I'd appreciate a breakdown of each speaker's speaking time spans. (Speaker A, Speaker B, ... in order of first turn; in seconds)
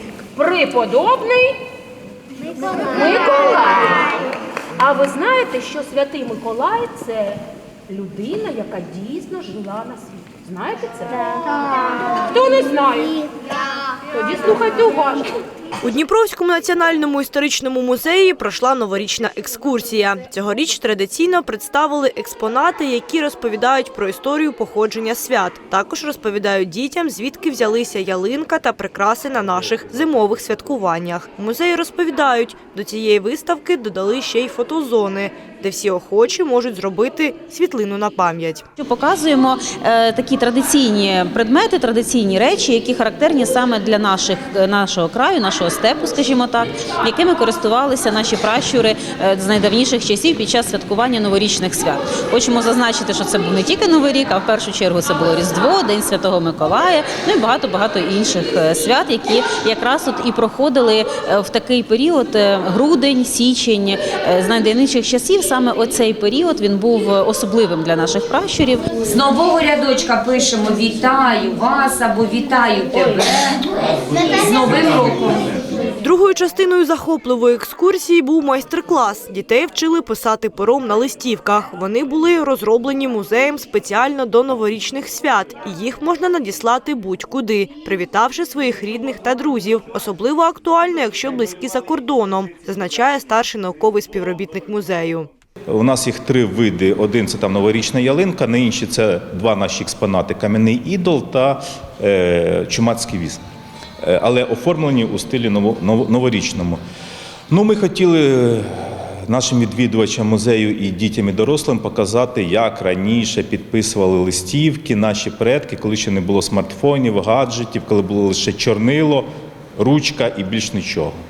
Speaker A: 0.3-1.6, 2.7-4.2, 4.8-13.2, 14.1-15.4
Speaker B: 15.8-38.6, 76.0-95.3
Speaker C: 38.8-69.0
Speaker D: 69.0-75.6
Speaker E: 95.7-103.4, 104.0-106.8, 107.5-121.1